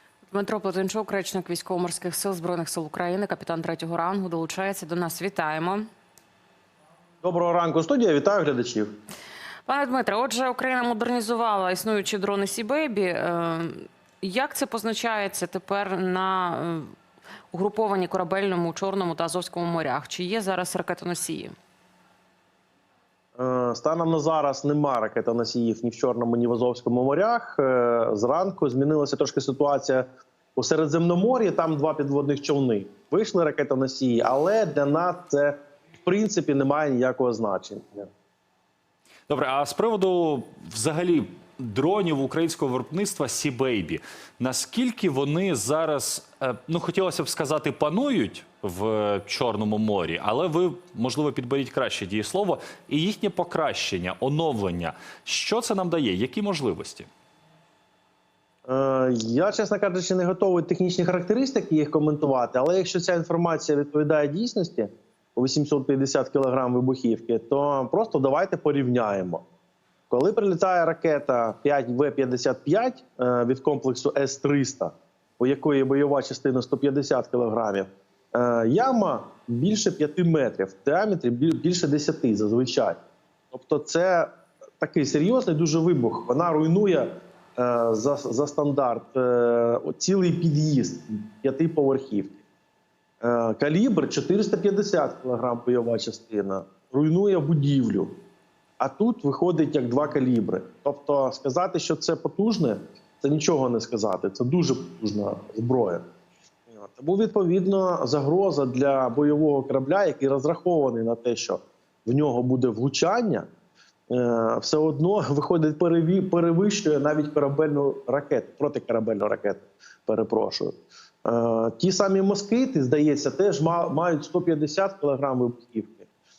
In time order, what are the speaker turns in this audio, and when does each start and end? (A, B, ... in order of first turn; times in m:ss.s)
0:00.3-0:05.9 A
0:07.2-0:09.0 B
0:09.7-0:16.9 A
0:17.5-0:21.6 A
0:23.4-0:38.1 B
0:39.3-0:57.1 C
0:58.7-1:09.4 B
1:10.1-1:23.0 B
1:23.5-1:32.4 B
1:33.2-1:38.2 B
1:38.8-1:46.0 B
1:46.7-1:53.5 B
1:54.1-2:06.1 B